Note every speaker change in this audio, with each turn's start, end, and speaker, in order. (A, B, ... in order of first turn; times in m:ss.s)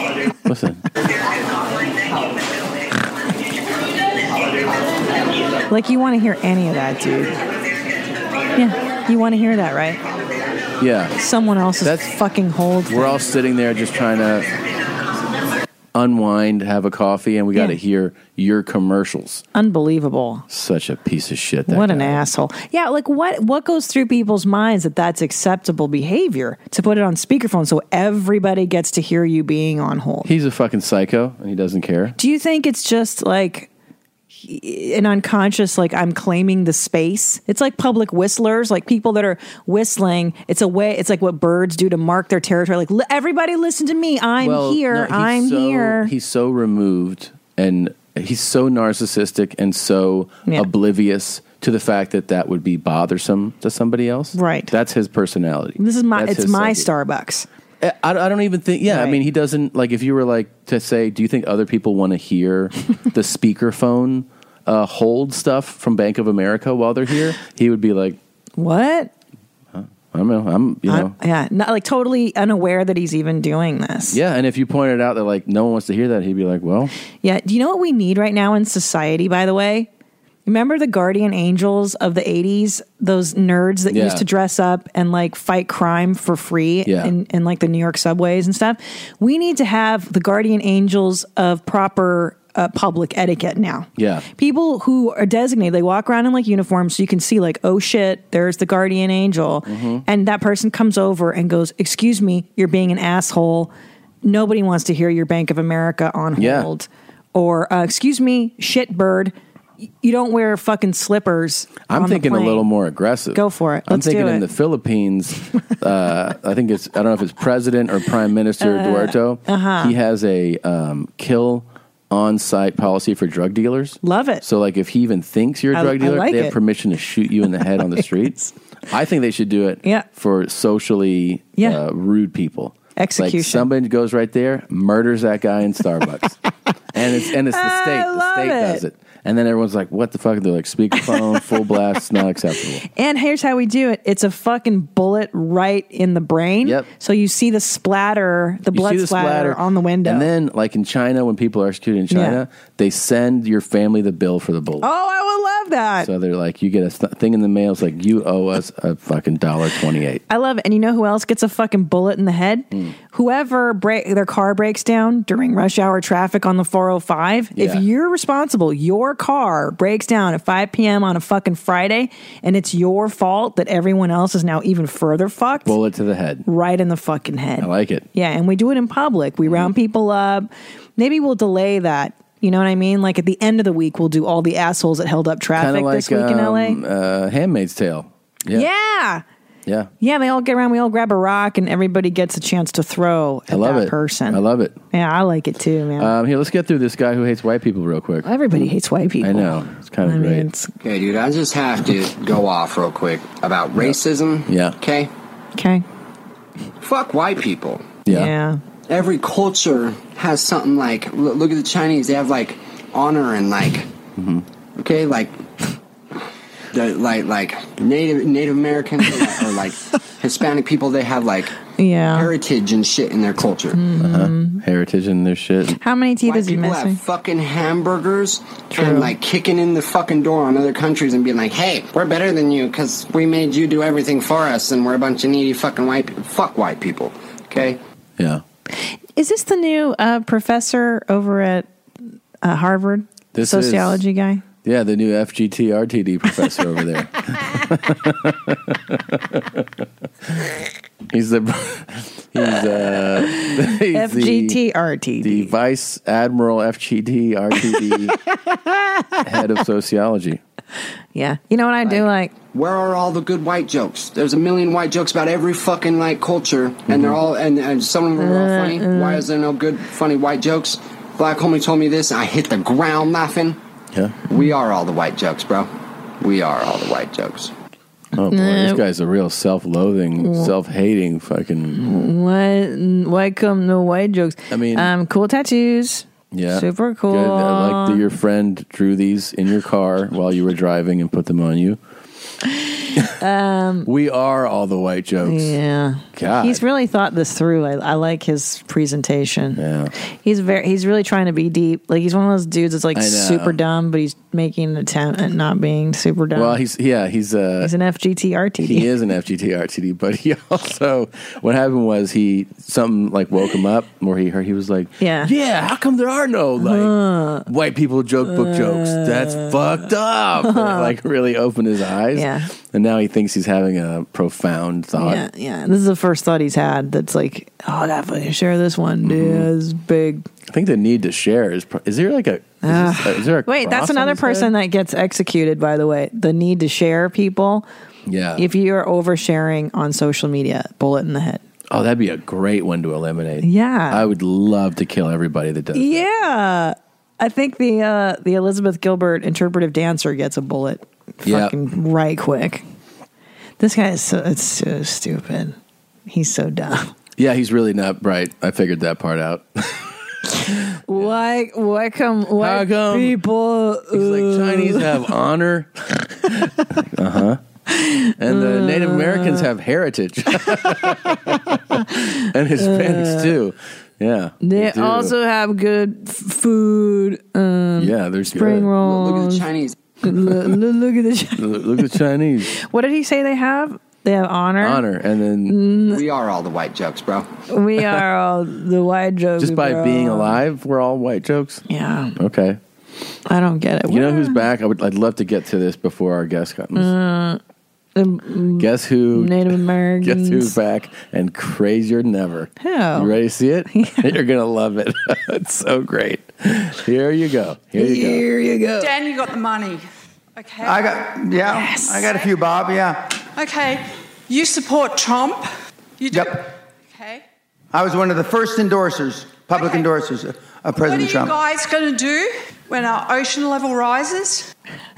0:00.4-0:00.8 A
0:05.7-0:07.4 B
0:08.6-0:10.0 B
0:10.8-0:11.1 A
0:11.2-0:13.2 B
0:11.8-0:12.1 A
0:12.9-0:14.5 A
0:15.9-0:19.4 A
0:19.5-0:20.4 B
0:20.5-0:22.2 A
0:21.7-0:30.3 B
0:30.2-0:32.2 A
0:32.2-0:33.7 B
0:34.3-0:46.1 B
0:44.4-0:56.9 A
0:54.3-0:54.7 B
0:55.8-0:57.4 B
0:57.8-1:08.2 A
0:58.8-0:59.2 B
1:08.6-1:09.1 B
1:09.7-1:11.1 A
1:10.9-1:14.2 B
1:14.1-1:16.9 A
1:17.2-1:19.9 B
1:20.4-1:43.7 B
1:23.9-1:24.2 A
1:26.8-1:27.1 A
1:34.0-1:34.2 A
1:39.6-1:40.0 A
1:44.2-1:49.3 B
1:46.4-1:46.7 A
1:50.0-1:52.7 B
1:51.9-2:08.4 A
1:53.3-1:54.4 B
1:58.6-1:59.9 B
2:04.0-2:04.4 B
2:05.7-2:06.6 B
2:07.6-2:08.0 B
2:08.9-2:16.4 A
2:13.0-2:13.7 B
2:16.9-2:22.8 A
2:17.5-2:18.8 B
2:22.9-2:30.3 B
2:28.7-2:34.9 A
2:32.1-2:32.4 B
2:34.8-2:36.1 B
2:36.0-2:40.2 A
2:40.3-2:55.7 B
2:47.6-2:47.8 A
2:55.6-2:56.4 A
2:56.4-3:06.8 B
2:57.6-2:58.0 A
2:59.4-2:59.7 A
3:05.6-3:08.7 A
3:08.5-3:09.2 B
3:10.0-3:14.4 B
3:13.5-3:14.8 A
3:14.9-3:16.1 B
3:16.0-3:18.7 A
3:18.2-3:20.7 B
3:19.2-3:20.5 A
3:20.8-3:25.1 C
3:24.5-3:24.8 A
3:25.6-3:25.8 B
3:26.8-3:27.9 C
3:28.0-3:28.3 A
3:28.1-3:28.6 B
3:28.9-3:33.9 C
3:34.2-3:34.4 A
3:34.8-3:35.4 C
3:36.7-3:41.6 C
3:41.8-3:42.3 B
3:42.1-3:43.8 C
3:43.7-3:44.6 B
3:44.0-3:45.8 A
3:45.8-3:47.0 B
3:46.2-3:57.8 C
3:48.7-3:49.1 B
3:58.2-3:58.4 A
3:59.2-4:01.7 B
4:02.4-4:04.4 B
4:03.3-4:04.0 A
4:04.6-4:09.7 A
4:11.1-4:14.6 A
4:13.0-4:15.5 B
4:15.2-4:18.2 A
4:18.5-4:19.2 B
4:19.2-4:20.4 A
4:21.1-4:22.3 B
4:21.8-4:33.6 C
4:26.9-4:27.2 A
4:28.2-4:29.2 B
4:34.3-4:37.5 C
4:38.1-4:41.8 A
4:38.3-4:38.8 B
4:40.2-4:40.5 B
4:41.8-4:48.0 B
4:44.5-4:44.9 A
4:46.3-4:51.8 A
4:53.0-4:53.9 B
4:53.8-4:55.6 A
4:55.2-4:59.6 B
4:56.1-4:56.6 A
4:59.6-4:59.9 A
5:00.2-5:06.6 B
5:02.9-5:03.6 A
5:06.3-5:07.7 A
5:07.6-5:08.9 B
5:08.6-5:25.2 A
5:15.0-5:15.3 B
5:16.6-5:17.5 B
5:18.2-5:19.5 B
5:20.4-5:20.9 B
5:22.1-5:22.5 B
5:25.0-5:30.3 B
5:29.0-5:29.5 A
5:30.5-5:34.5 A
5:32.6-5:37.6 B
5:38.1-5:38.4 A
5:38.4-5:41.4 B
5:41.7-5:46.0 A
5:43.4-5:44.0 B
5:45.7-5:52.6 B
5:51.2-5:51.5 A
5:53.6-5:55.6 B
5:56.1-5:56.9 B
5:57.2-5:59.9 A
6:00.5-6:00.8 A
6:00.9-6:05.0 B
6:02.4-6:03.2 A
6:03.9-6:07.4 A
6:07.7-6:09.4 B
6:08.2-6:15.1 A
6:10.5-6:11.1 B
6:12.6-6:13.3 B
6:14.4-6:19.5 B
6:17.8-6:18.7 A
6:18.8-6:19.8 C
6:20.0-6:21.6 B
6:21.4-6:22.5 A
6:22.5-6:24.8 B
6:24.6-6:25.6 A
6:25.5-6:26.0 B
6:25.8-6:27.3 C
6:27.5-6:30.4 B
6:29.4-6:31.6 A
6:31.7-6:32.2 B
6:32.2-6:32.6 A
6:33.2-6:34.4 B
6:33.9-6:36.9 A
6:36.7-6:37.4 B
6:38.0-6:40.5 B
6:38.6-6:48.2 A
6:42.6-6:43.1 B
6:43.7-6:44.1 B
6:47.8-6:48.9 B
6:48.8-6:49.8 D
6:50.4-6:51.0 D
6:50.6-6:53.1 E
6:51.5-6:51.9 B
6:52.0-6:52.3 D
6:53.3-6:55.5 D
6:56.0-6:57.2 D
6:56.1-6:56.4 E
6:57.7-7:01.3 E
6:59.5-6:59.9 D
7:00.8-7:04.5 D